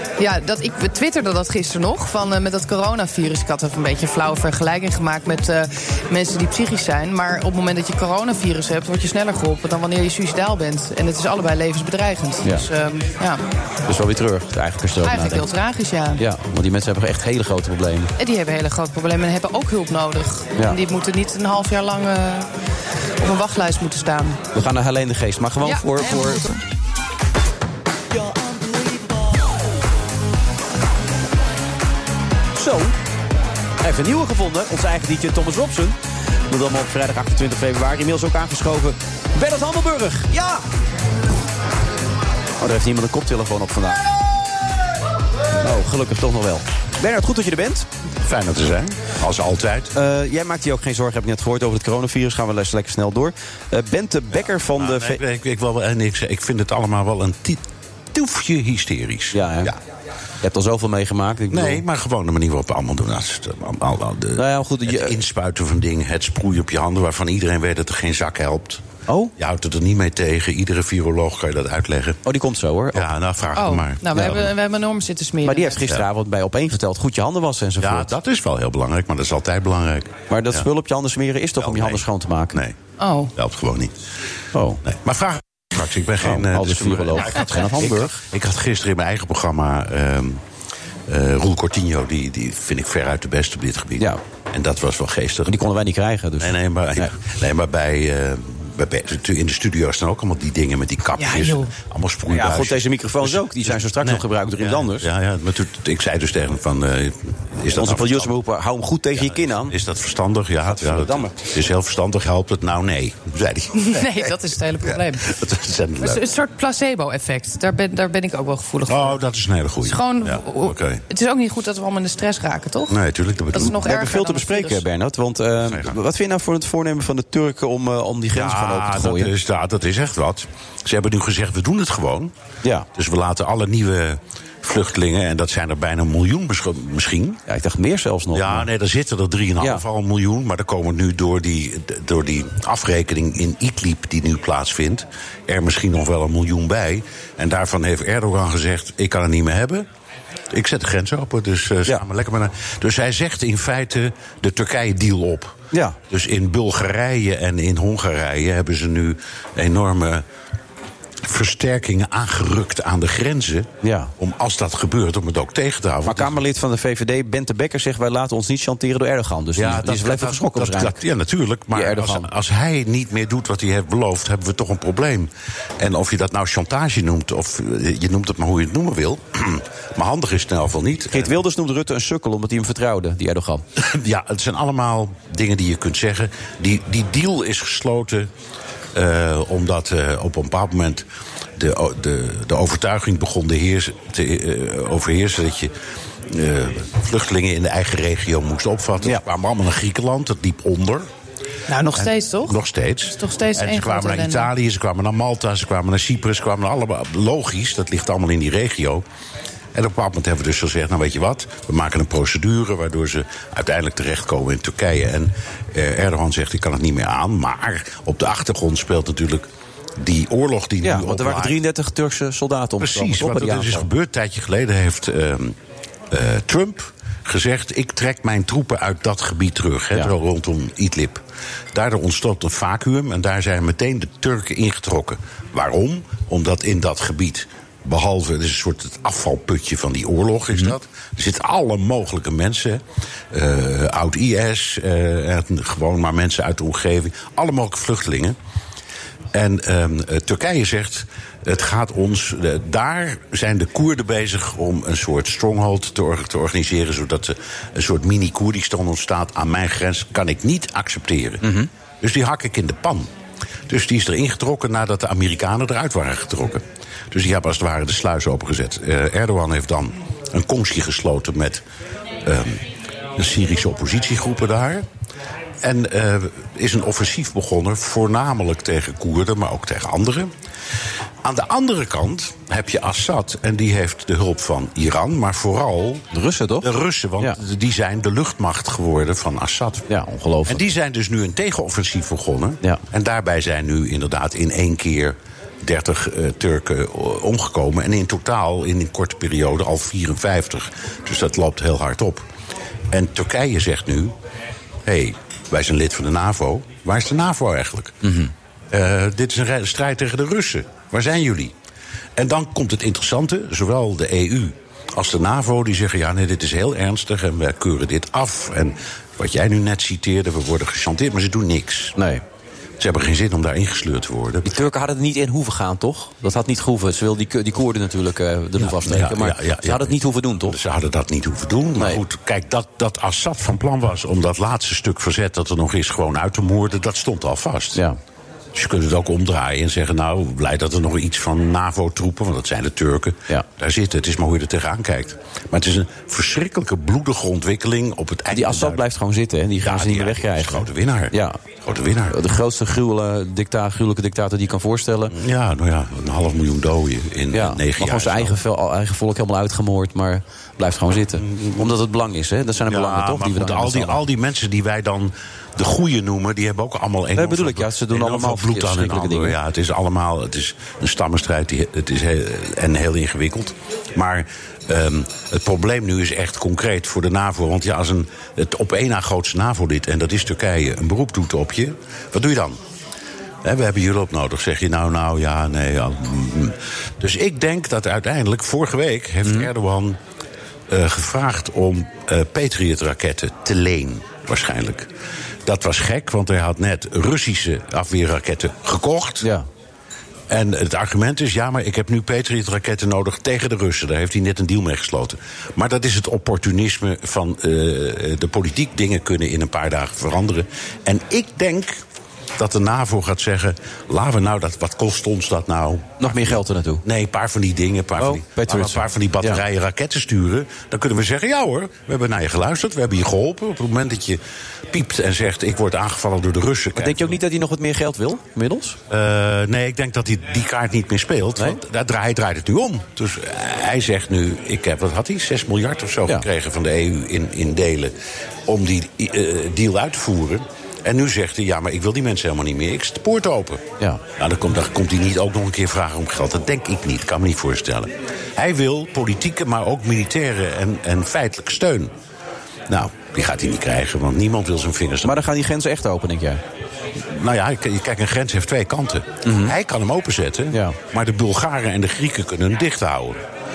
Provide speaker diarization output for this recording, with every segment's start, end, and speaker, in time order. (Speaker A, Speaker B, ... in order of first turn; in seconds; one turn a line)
Speaker A: 0.2-13.4
Speaker B: 13.9-15.4
Speaker A: 15.0-16.2
Speaker B: 16.2-18.1
Speaker A: 18.2-22.5
Speaker A: 23.2-24.4
Speaker B: 24.5-26.4
Speaker A: 25.6-26.6
Speaker B: 32.6-32.9
Speaker B: 33.8-36.0
Speaker B: 36.5-40.6
Speaker B: 42.6-44.0
Speaker B: 45.5-47.9
Speaker C: 48.2-49.9
Speaker B: 49.9-55.2
Speaker C: 54.3-57.6
Speaker C: 58.1-59.8
Speaker B: 59.3-59.7
Speaker B: 60.4-61.8
Speaker C: 61.5-68.8
Speaker B: 64.4-65.2
Speaker B: 69.1-69.3
Speaker C: 69.4-72.2
Speaker B: 72.2-73.1
Speaker C: 72.9-74.5
Speaker A: 73.5-75.8
Speaker B: 74.1-74.4
Speaker B: 75.4-78.1
Speaker C: 77.8-80.7
Speaker B: 80.3-82.6
Speaker C: 81.6-82.8
Speaker A: 83.0-83.3
Speaker C: 83.3-83.9
Speaker B: 84.5-84.8
Speaker C: 84.8-90.4
Speaker B: 86.2-88.1
Speaker C: 91.1-95.6
Speaker B: 95.5-97.1
Speaker C: 96.4-108.3
Speaker A: 101.2-101.7
Speaker B: 102.3-105.1
Speaker B: 107.7-109.7
Speaker C: 109.1-114.2
Speaker B: 110.7-111.4
Speaker A: 113.7-115.3
Speaker C: 114.8-116.2
Speaker A: 116.0-119.2
Speaker C: 118.9-121.0
Speaker A: 119.8-123.0
Speaker C: 122.9-123.8
Speaker A: 123.5-124.8
Speaker B: 123.6-129.3
Speaker C: 125.6-126.0
Speaker C: 128.3-132.3
Speaker C: 132.9-137.4
Speaker B: 137.5-138.7
Speaker C: 138.3-149.8
Speaker C: 150.5-155.6
Speaker B: 155.7-156.0
Speaker C: 156.1-160.2
Speaker C: 161.2-166.4
Speaker B: 163.8-164.1
Speaker B: 166.0-171.0
Speaker C: 169.6-181.4
Speaker B: 171.7-172.3
Speaker B: 181.1-183.6
Speaker C: 183.8-188.3
Speaker C: 188.9-191.0
Speaker C: 191.6-195.7
Speaker C: 196.3-201.1
Speaker A: 201.7-204.5
Speaker C: 201.9-209.0
Speaker C: 209.7-219.5
Speaker C: 220.0-221.6
Speaker B: 220.8-223.8
Speaker C: 222.8-225.6
Speaker C: 226.1-231.2
Speaker C: 231.7-248.3
Speaker C: 249.3-263.1
Speaker B: 261.4-261.7
Speaker C: 263.7-271.6
Speaker C: 272.2-272.6
Speaker C: 273.2-274.9
Speaker C: 275.6-280.3
Speaker C: 281.2-286.0
Speaker B: 286.1-286.7
Speaker C: 286.6-289.9
Speaker B: 289.9-290.6
Speaker C: 290.4-302.2
Speaker C: 302.9-304.1
Speaker C: 304.8-308.0
Speaker B: 308.0-308.3
Speaker C: 308.7-311.5
Speaker C: 312.2-321.9
Speaker B: 321.9-322.2
Speaker C: 322.8-324.6
Speaker B: 324.4-330.6
Speaker C: 328.6-337.8
Speaker C: 338.5-348.8
Speaker B: 348.3-351.4
Speaker C: 349.6-352.2
Speaker B: 352.1-355.1
Speaker C: 355.1-358.4
Speaker B: 357.3-364.0
Speaker C: 361.1-361.7
Speaker C: 362.7-382.6
Speaker B: 367.1-369.4
Speaker C: 383.4-390.0
Speaker C: 390.7-394.9
Speaker C: 395.4-399.3
Speaker B: 399.2-399.4
Speaker C: 400.3-411.8
Speaker C: 412.4-427.2
Speaker B: 416.0-416.8
Speaker B: 418.0-419.4
Speaker B: 426.8-428.8
Speaker C: 428.9-437.9
Speaker C: 438.5-451.9
Speaker C: 452.7-455.2
Speaker B: 455.0-456.4
Speaker C: 457.0-463.2
Speaker B: 459.2-459.5
Speaker B: 460.5-460.8